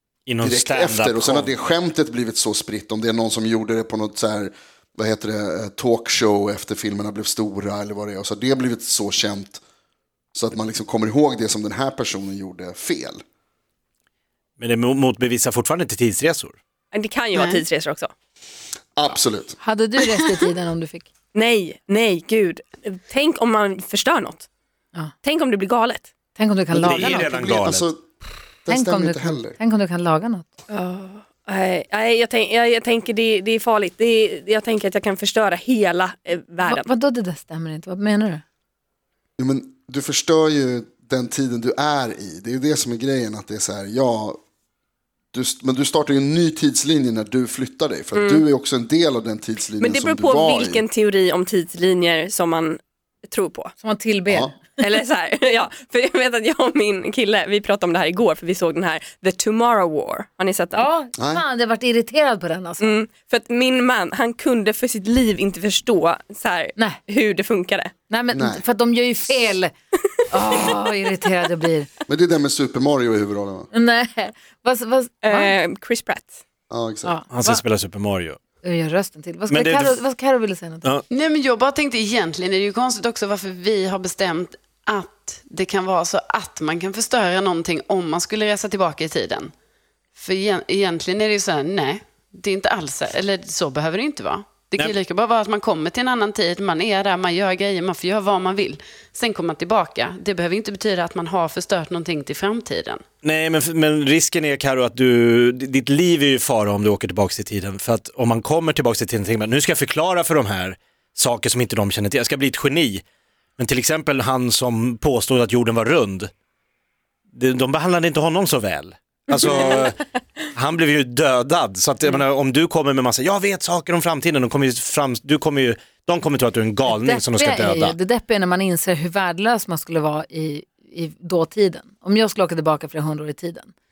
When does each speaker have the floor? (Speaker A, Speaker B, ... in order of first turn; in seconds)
Speaker A: 0.3-1.5, 14.6-16.6, 26.8-27.9, 77.3-78.4, 79.5-80.0, 103.2-113.0, 113.6-116.3, 117.3-120.0, 120.5-128.0
Speaker B: 0.4-9.6, 10.3-13.2, 19.0-19.6, 26.7-28.0, 28.6-29.6, 39.4-44.4, 45.3-50.8, 54.3-54.5, 61.2-61.4, 68.3-68.6, 72.1-73.7, 76.7-77.2
Speaker C: 16.9-18.1, 21.3-24.5, 25.2-26.1, 30.7-36.9, 48.1-48.5, 49.8-53.7, 54.8-60.9, 62.8-67.9, 75.2-76.4, 119.3-119.8
Speaker D: 17.3-17.6, 81.1-89.5, 90.2-103.0
Speaker E: 19.6-21.1, 26.4-27.3, 28.7-30.5, 36.7-38.4, 53.8-54.8, 60.7-63.0, 68.1-69.7, 70.3-71.9, 73.7-75.5, 77.0-77.6, 78.6-80.9, 126.9-133.7